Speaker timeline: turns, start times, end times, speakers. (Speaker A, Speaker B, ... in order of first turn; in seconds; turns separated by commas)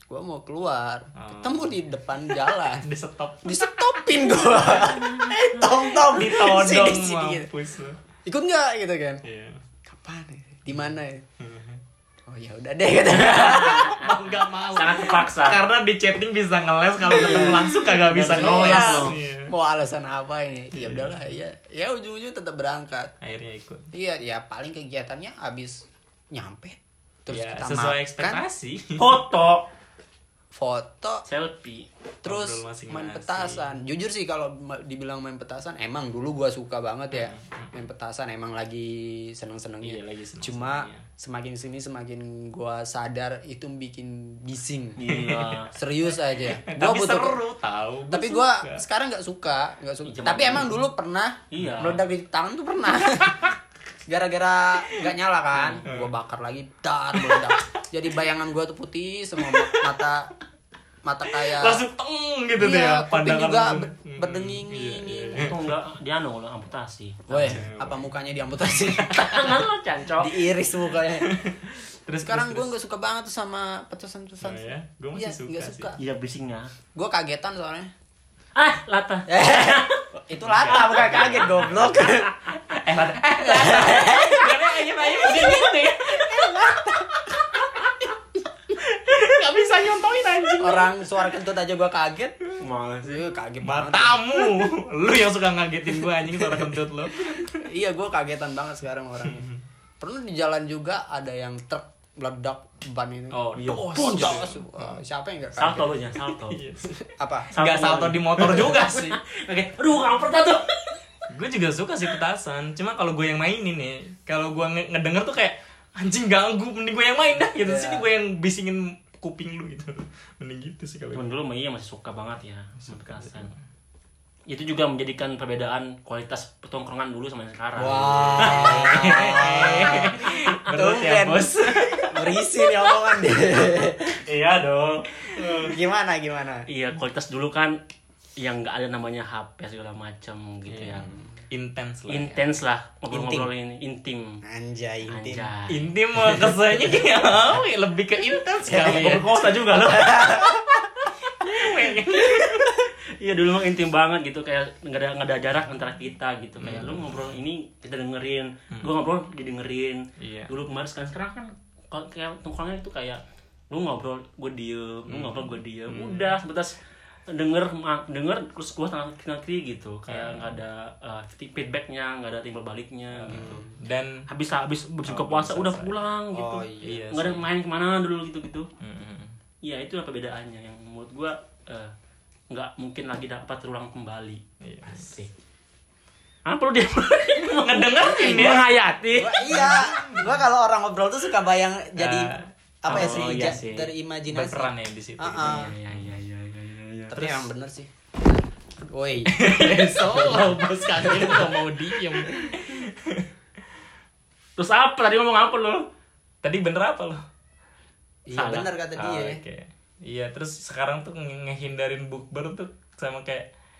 Speaker A: 0.1-2.9, Speaker B: 1.1-1.7, Speaker B: 2.7-8.0, Speaker A: 3.4-7.5, Speaker A: 8.2-9.2, Speaker B: 9.2-9.6, Speaker A: 9.9-11.2, Speaker B: 10.8-11.8, Speaker A: 12.3-14.0, Speaker C: 13.1-14.1, Speaker B: 13.3-19.5, Speaker C: 14.7-15.6, Speaker A: 17.1-23.1, Speaker C: 17.1-19.1, Speaker B: 20.7-21.2, Speaker B: 23.2-23.9, Speaker A: 23.9-28.4, Speaker B: 27.3-29.2, Speaker C: 29.0-29.6, Speaker A: 30.5-31.2, Speaker C: 31.2-31.9, Speaker B: 32.2-33.7, Speaker A: 32.2-45.0, Speaker B: 37.1-37.7, Speaker B: 39.8-41.0, Speaker C: 45.0-45.7, Speaker B: 45.1-45.6, Speaker A: 45.7-47.4, Speaker B: 46.4-48.8, Speaker A: 48.1-53.5, Speaker C: 50.0-50.7, Speaker C: 51.5-52.0, Speaker A: 54.1-60.3, Speaker C: 55.5-55.8, Speaker B: 55.8-56.1, Speaker B: 57.1-57.6, Speaker B: 59.4-60.0, Speaker A: 61.0-61.8, Speaker B: 61.3-65.7, Speaker A: 62.6-65.5, Speaker C: 65.4-67.3, Speaker A: 67.3-69.6, Speaker B: 67.3-68.1, Speaker C: 69.1-70.4, Speaker A: 70.2-71.3, Speaker B: 71.2-72.7, Speaker A: 72.2-76.0, Speaker B: 74.4-75.9, Speaker C: 76.0-76.7, Speaker A: 76.9-77.9, Speaker C: 78.5-80.0, Speaker A: 79.3-82.3, Speaker B: 80.4-82.1, Speaker C: 80.7-82.1, Speaker B: 82.6-88.1, Speaker A: 83.4-87.3, Speaker B: 88.7-91.0, Speaker A: 90.6-92.5, Speaker C: 92.6-93.2, Speaker A: 93.0-94.7, Speaker B: 93.6-97.7, Speaker A: 95.9-96.8, Speaker A: 97.3-106.0, Speaker B: 103.3-105.0, Speaker C: 103.5-104.1, Speaker C: 105.6-106.6, Speaker B: 106.5-107.0, Speaker A: 107.0-107.5, Speaker C: 107.5-110.8, Speaker B: 107.5-109.2, Speaker B: 111.3-121.3, Speaker A: 117.6-118.1, Speaker C: 121.1-123.5, Speaker B: 122.8-123.5, Speaker C: 124.5-130.7, Speaker A: 127.8-134.2, Speaker B: 128.3-132.3, Speaker C: 134.1-135.7, Speaker B: 135.4-135.7, Speaker A: 135.6-136.7, Speaker C: 136.7-137.8, Speaker C: 138.4-141.1, Speaker B: 140.7-142.4, Speaker A: 141.0-141.3, Speaker C: 142.1-144.4, Speaker A: 143.1-143.5, Speaker A: 144.4-145.5, Speaker C: 145.1-145.9, Speaker B: 145.7-149.3, Speaker A: 146.4-146.9, Speaker A: 148.7-149.1, Speaker C: 148.7-150.4, Speaker A: 149.6-151.0, Speaker B: 151.3-152.7, Speaker A: 152.2-152.6, Speaker C: 153.2-166.8, Speaker B: 156.6-157.4, Speaker B: 160.2-160.5, Speaker B: 165.1-166.4, Speaker C: 167.3-173.7, Speaker B: 170.1-170.6, Speaker B: 173.2-174.2, Speaker A: 173.3-173.7, Speaker C: 174.3-178.7, Speaker B: 175.0-175.9, Speaker A: 176.3-177.0, Speaker B: 176.8-177.4, Speaker B: 178.8-179.4, Speaker C: 179.6-181.9, Speaker C: 182.5-185.3, Speaker B: 184.6-185.1, Speaker C: 186.4-189.5, Speaker B: 187.4-188.6, Speaker A: 189.1-195.7, Speaker B: 189.5-190.3, Speaker B: 192.0-193.3, Speaker C: 192.9-193.9, Speaker B: 194.3-196.2, Speaker C: 195.4-197.4, Speaker A: 197.1-201.6, Speaker B: 199.3-203.3, Speaker A: 202.1-202.4, Speaker C: 204.6-205.8, Speaker B: 206.4-207.2, Speaker A: 208.3-209.4, Speaker C: 208.3-208.7, Speaker B: 209.0-213.4